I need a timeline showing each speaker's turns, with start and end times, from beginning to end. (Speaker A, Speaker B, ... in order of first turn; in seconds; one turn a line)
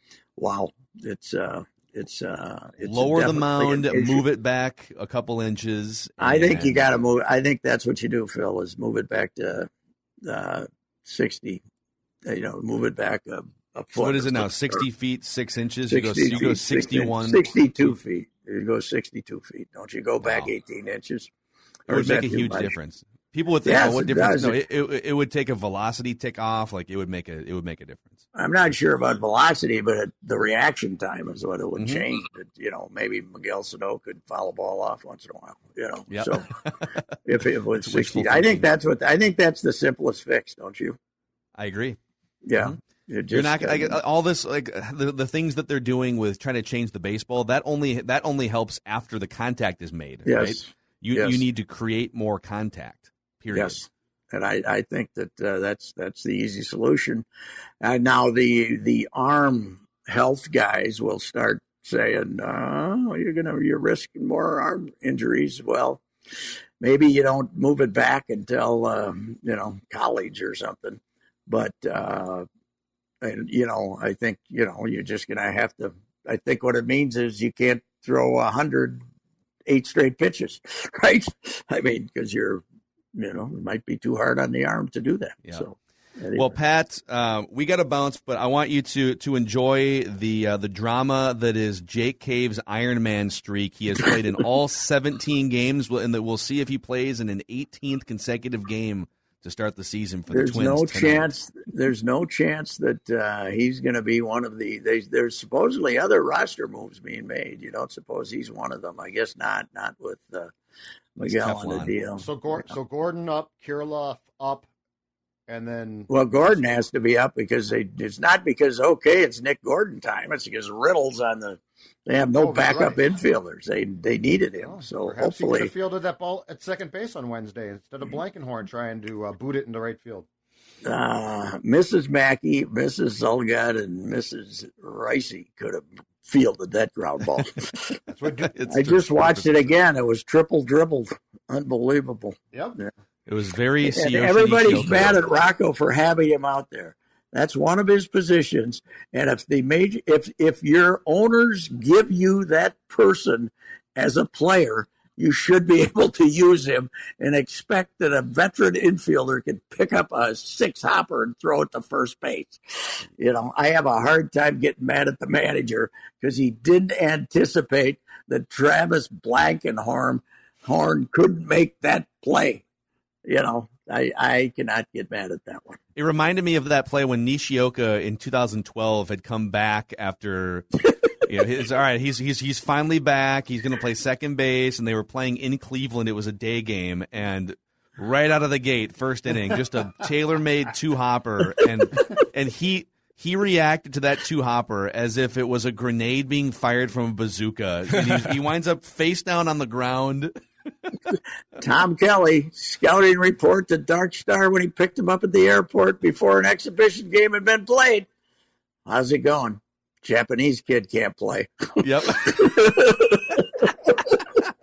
Speaker A: 0.4-4.2
Speaker B: 2.8-6.9
Speaker A: 6.2-9.7
Speaker A: 10.2-11.6
Speaker A: 12.2-14.8
Speaker B: 14.0-17.9
Speaker A: 15.9-21.3
Speaker B: 20.2-20.5
Speaker A: 21.9-22.7
Speaker B: 21.9-28.2
Speaker A: 23.6-24.6
Speaker A: 28.3-36.4
Speaker B: 31.8-32.0
Speaker B: 36.1-37.0
Speaker A: 37.2-41.0
Speaker B: 37.8-38.7
Speaker B: 41.5-42.0
Speaker A: 42.4-44.0
Speaker B: 43.3-53.8
Speaker A: 50.2-51.4
Speaker A: 53.5-57.2
Speaker A: 57.8-66.0
Speaker A: 66.8-72.5
Speaker A: 73.2-79.0
Speaker A: 79.7-82.6
Speaker A: 83.2-86.5
Speaker B: 86.3-101.3
Speaker A: 100.3-110.5
Speaker A: 111.2-112.7
Speaker B: 111.2-112.0
Speaker C: 112.2-114.7
Speaker C: 115.5-116.1
Speaker A: 116.1-125.7
Speaker C: 122.4-123.0
Speaker C: 124.6-130.3
Speaker A: 130.8-138.0
Speaker C: 138.1-138.5
Speaker B: 138.4-139.7
Speaker A: 138.7-142.9
Speaker B: 143.3-145.2
Speaker A: 143.8-172.6
Speaker A: 173.2-175.8
Speaker B: 175.9-200.3
Speaker A: 201.6-208.1
Speaker A: 208.8-211.5
Speaker B: 211.8-212.9
Speaker A: 212.0-214.2